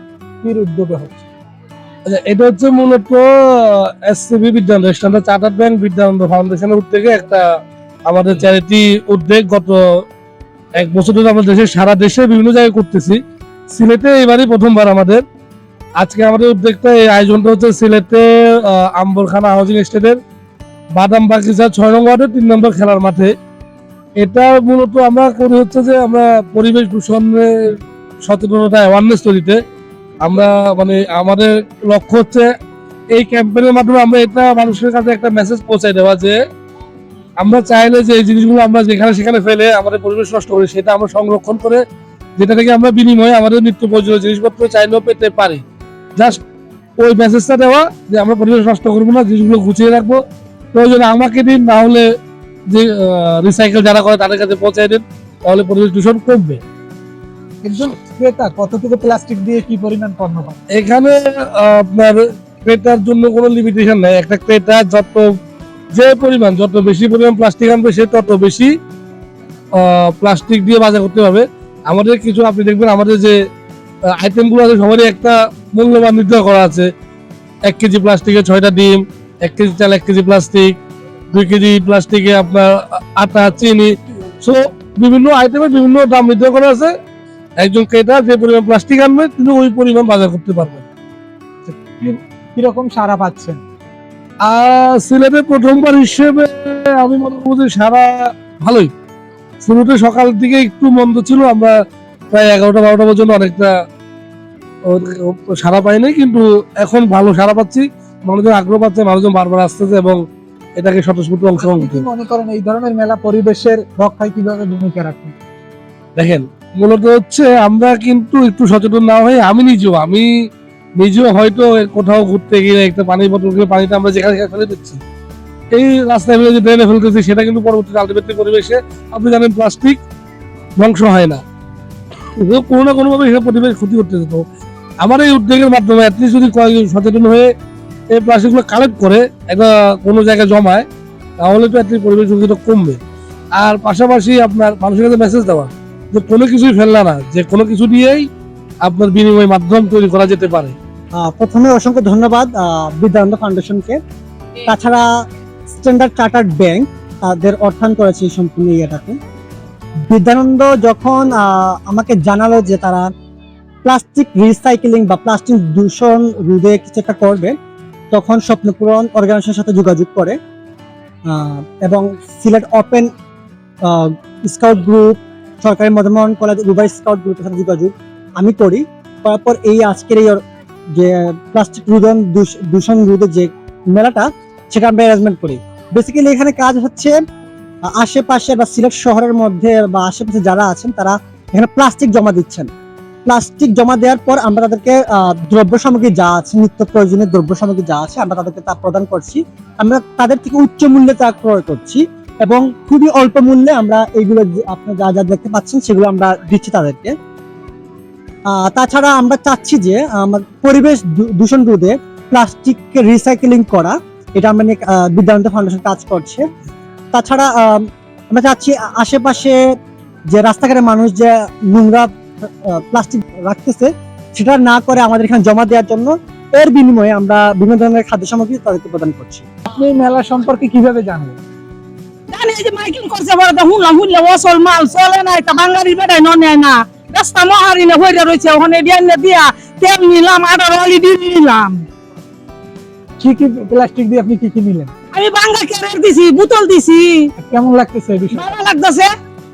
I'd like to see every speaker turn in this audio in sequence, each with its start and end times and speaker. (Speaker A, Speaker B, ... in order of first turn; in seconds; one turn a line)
Speaker A: 0.4-1.2
Speaker B: 2.1-7.4
Speaker B: 8.1-10.0
Speaker B: 10.8-13.2
Speaker B: 13.7-15.2
Speaker B: 16.0-20.2
Speaker B: 20.9-23.3
Speaker B: 24.2-29.6
Speaker B: 30.2-32.5
Speaker B: 33.1-36.4
Speaker B: 37.4-41.8
Speaker B: 42.4-45.6
Speaker B: 46.1-46.4
Speaker B: 47.0-50.2
Speaker B: 50.7-52.0
Speaker B: 52.7-56.6
Speaker A: 57.6-60.6
Speaker B: 60.8-65.3
Speaker B: 65.9-68.7
Speaker B: 69.8-73.3
Speaker B: 74.2-76.9
Speaker B: 77.7-80.8
Speaker B: 81.3-86.9
Speaker B: 87.6-90.8
Speaker A: 91.7-93.6
Speaker B: 94.4-98.9
Speaker B: 99.6-101.7
Speaker B: 102.3-103.7
Speaker B: 104.9-110.2
Speaker B: 110.8-112.0
Speaker A: 111.6-115.3
Speaker B: 116.2-120.3
Speaker B: 121.0-125.0
Speaker B: 125.7-130.0
Speaker B: 130.8-131.4
Speaker B: 132.4-134.4
Speaker B: 135.0-137.5
Speaker B: 138.1-140.8
Speaker B: 141.4-143.0
Speaker B: 143.6-148.3
Speaker B: 148.8-150.7
Speaker C: 151.2-154.0
Speaker C: 154.6-155.0
Speaker C: 155.7-159.2
Speaker C: 160.1-163.1
Speaker C: 163.8-167.5
Speaker C: 168.1-170.3
Speaker C: 171.3-173.1
Speaker C: 173.8-180.4
Speaker C: 180.9-187.2
Speaker C: 187.9-192.7
Speaker C: 193.2-207.1
Speaker C: 208.5-216.4
Speaker C: 217.1-219.6
Speaker C: 220.3-229.4
Speaker A: 229.7-231.4
Speaker D: 232.3-241.8
Speaker A: 243.2-244.9
Speaker D: 245.1-247.3
Speaker A: 247.4-248.6
Speaker D: 248.3-249.1